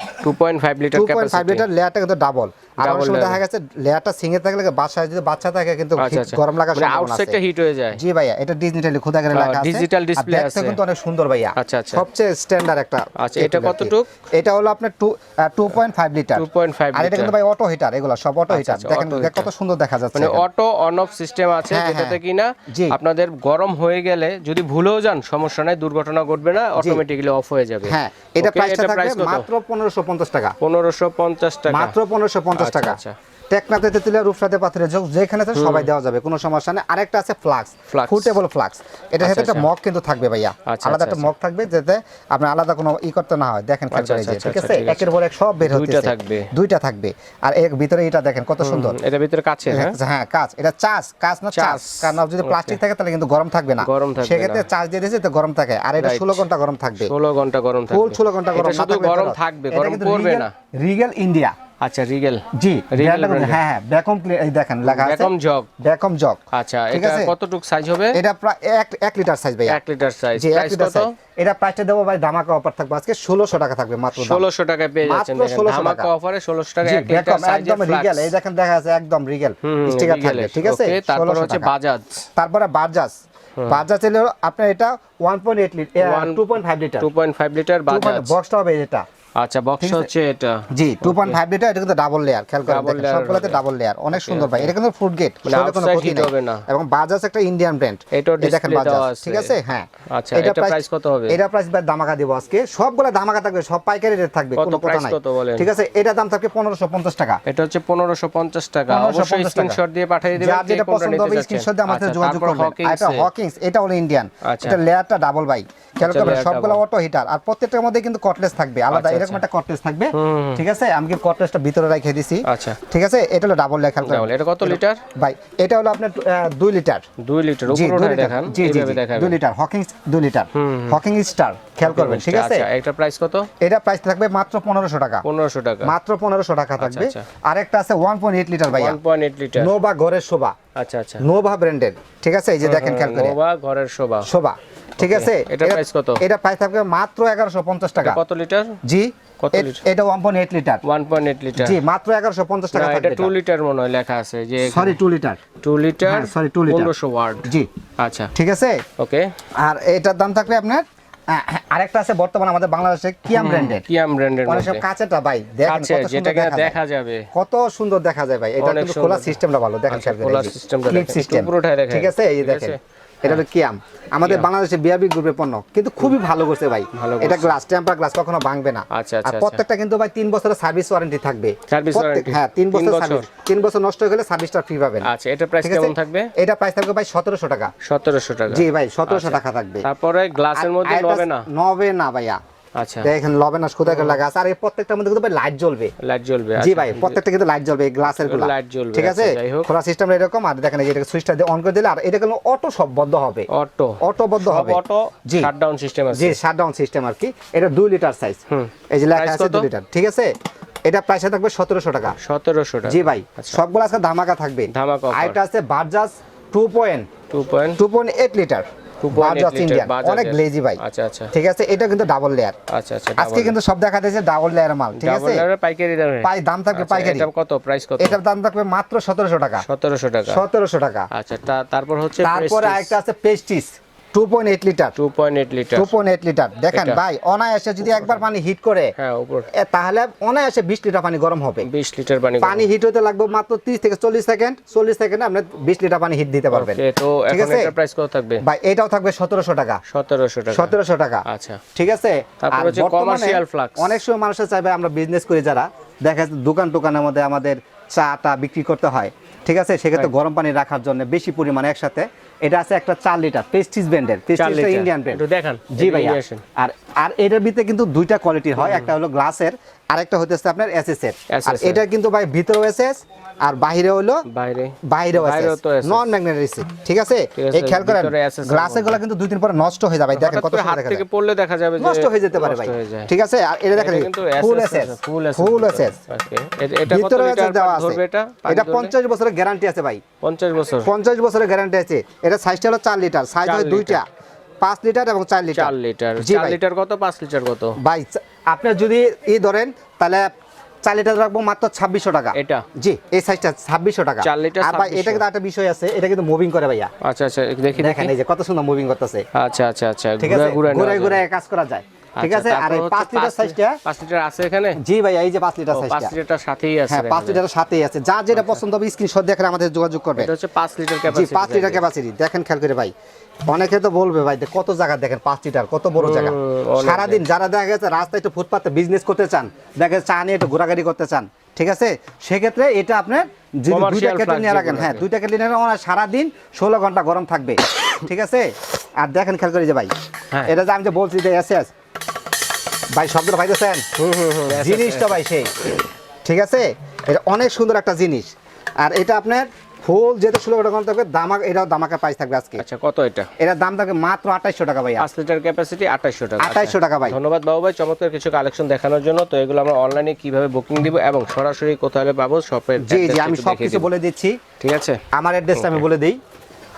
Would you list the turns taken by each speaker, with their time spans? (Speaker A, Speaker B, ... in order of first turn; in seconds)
Speaker A: 0.2-1.6, 2.8-3.4, 6.0-8.0, 9.3-10.8, 11.6-12.0, 13.2-14.1, 16.4-17.3, 18.5-19.5, 20.1-29.5, 30.6-31.9, 32.5-33.1, 35.5-35.9, 37.9-38.4, 39.2-39.7, 40.7-41.3, 43.9-45.1, 45.6-46.5, 48.6-50.0, 51.5-52.8, 53.8-54.7, 56.0-56.4, 57.0-60.5, 61.8-63.6, 64.8-65.7, 66.5-68.2, 69.7-71.1, 74.2-78.3, 79.6-82.2, 86.0-88.3, 89.4-91.4, 92.6-93.6, 94.1-94.7, 95.4-96.7, 98.1-99.5, 100.1-101.4, 104.6-105.7, 107.5-113.3, 114.4-114.8, 116.0-116.8, 118.9-119.4, 120.1-120.6, 122.5-122.8, 124.0-125.0, 127.2-129.4, 130.5-131.0, 131.8-133.5, 135.2-135.9, 136.8-137.2, 138.7-139.7, 140.8-141.2, 142.6-144.3, 145.0-146.2, 148.0-148.8, 149.4-149.8, 150.8-151.8, 152.7-155.0, 155.6-158.3, 159.0-159.3, 163.3-164.8, 165.6-167.3, 168.6-169.4, 169.9-173.4, 174.2-174.5, 176.9-177.5, 178.9-179.6, 181.7-183.2, 185.0-186.3, 187.8-191.5, 192.8-193.1, 193.8-194.2, 196.0-197.2, 198.1-199.7, 203.5-206.3, 208.5-209.7, 212.2-213.6, 214.7-215.4, 217.3-217.8, 219.0-221.3, 222.7-223.6, 224.9-228.2, 229.6-230.4, 231.1-232.9, 235.0-235.9, 236.7-237.0, 237.8-238.2, 239.0-239.5, 241.7-242.7, 246.5-248.4, 249.9-250.8, 251.3-251.6, 252.4-254.0, 264.4-266.4, 268.6-268.9, 271.3-271.8, 274.3-276.1, 277.3-279.0, 280.1-283.1, 283.7-288.9, 290.2-290.9, 293.4-294.0, 295.5-297.8, 302.3-302.6, 304.2-305.2, 307.0-308.1, 309.3-311.2, 312.2-314.8, 315.7-317.4, 318.3-318.6, 320.1-321.8, 326.0-327.2, 333.7-335.1, 344.0-345.2, 352.6-353.3, 355.0-363.9, 364.6-365.0, 365.5-365.9
Speaker B: 0.9-7.4, 7.9-20.4, 21.6-23.0, 26.8-27.0, 27.8-30.5, 31.7-33.0, 33.5-49.0, 49.7-57.1, 57.9-61.5, 62.5-66.4, 66.9-67.3, 68.1-69.8, 70.3-74.4, 75.0-76.1, 76.8-81.7, 82.3-87.1, 87.9-89.0, 89.8-90.1, 90.7-107.4, 108.9-109.8, 110.3-127.0, 127.7-132.7, 133.6-135.2, 135.8-139.0, 139.6-140.5, 141.2-143.4, 144.2-148.2, 148.8-150.8, 151.6-153.3, 154.6-155.4, 156.0-156.9, 158.3-158.8, 159.6-163.8, 164.5-166.8, 167.3-185.1, 185.6-187.7, 188.5-189.8, 190.5-192.4, 193.0-195.9, 196.6-203.5, 204.0-205.5, 206.1-210.3, 210.8-212.2, 212.8-217.1, 217.8-220.8, 221.3-222.6, 223.2-225.4, 226.2-227.3, 228.0-229.6, 230.3-231.1, 232.2-234.9, 235.7-238.9, 239.5-241.7, 242.4-247.7, 248.4-249.8, 250.5-251.2, 251.7-274.2, 274.8-281.0, 281.8-286.0, 286.9-290.0, 290.8-294.1, 294.6-296.6, 297.8-300.3, 300.8-306.9, 307.8-309.2, 310.2-313.8, 314.8-316.1, 316.9-320.3, 321.1-322.9, 323.4-339.9, 340.4-341.7, 342.9-343.9, 344.5-345.7, 346.2-352.6, 353.4-355.1, 356.4-357.2, 362.8-364.4, 365.1-366.2